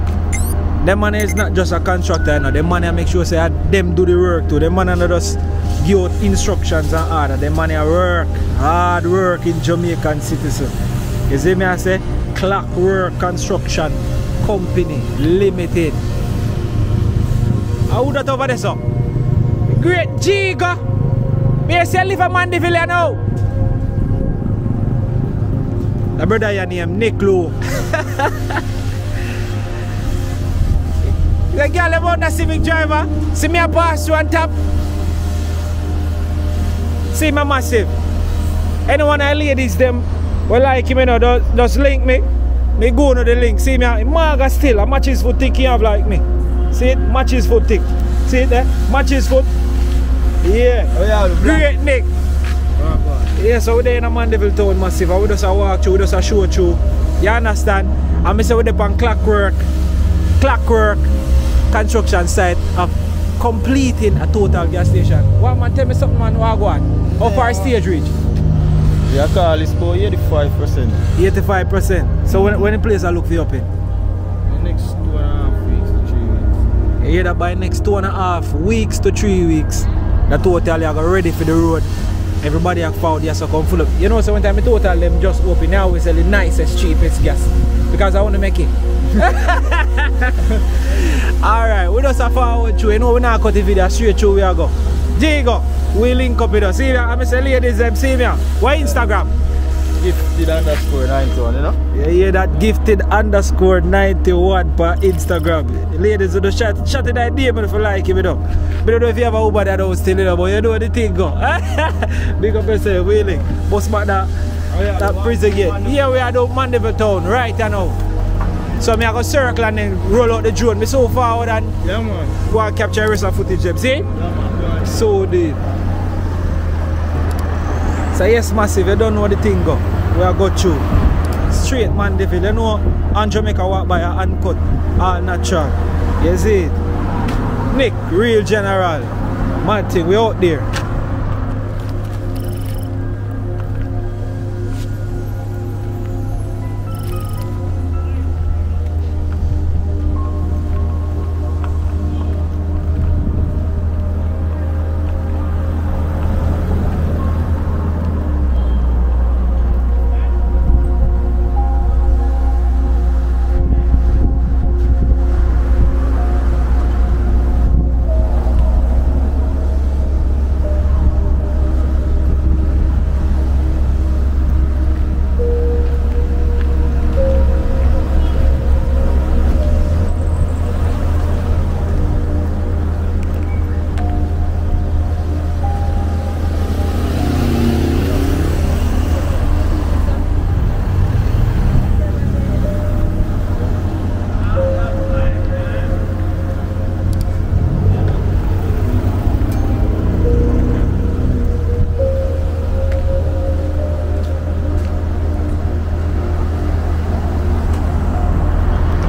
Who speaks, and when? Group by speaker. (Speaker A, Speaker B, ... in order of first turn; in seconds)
Speaker A: 0.8-10.7, 11.3-16.0, 17.9-18.8, 19.7-20.8, 21.6-23.2, 26.2-28.6, 31.5-34.5, 37.1-37.9, 38.9-42.2, 42.8-49.5, 50.4-52.1, 53.4-59.6, 60.4-61.1, 61.7-68.1, 71.2-73.7, 77.0-81.9, 82.4-90.3, 91.4-99.3, 101.9-114.3, 114.9-118.0, 118.8-121.8, 122.4-124.1, 124.8-125.6, 128.1-130.9, 131.5-136.8, 137.7-140.7
Speaker B: 50.9-51.7, 52.8-53.3, 67.2-67.7, 69.1-71.0, 74.5-76.6, 100.0-101.8, 114.7-116.1, 121.8-122.3, 124.2-124.9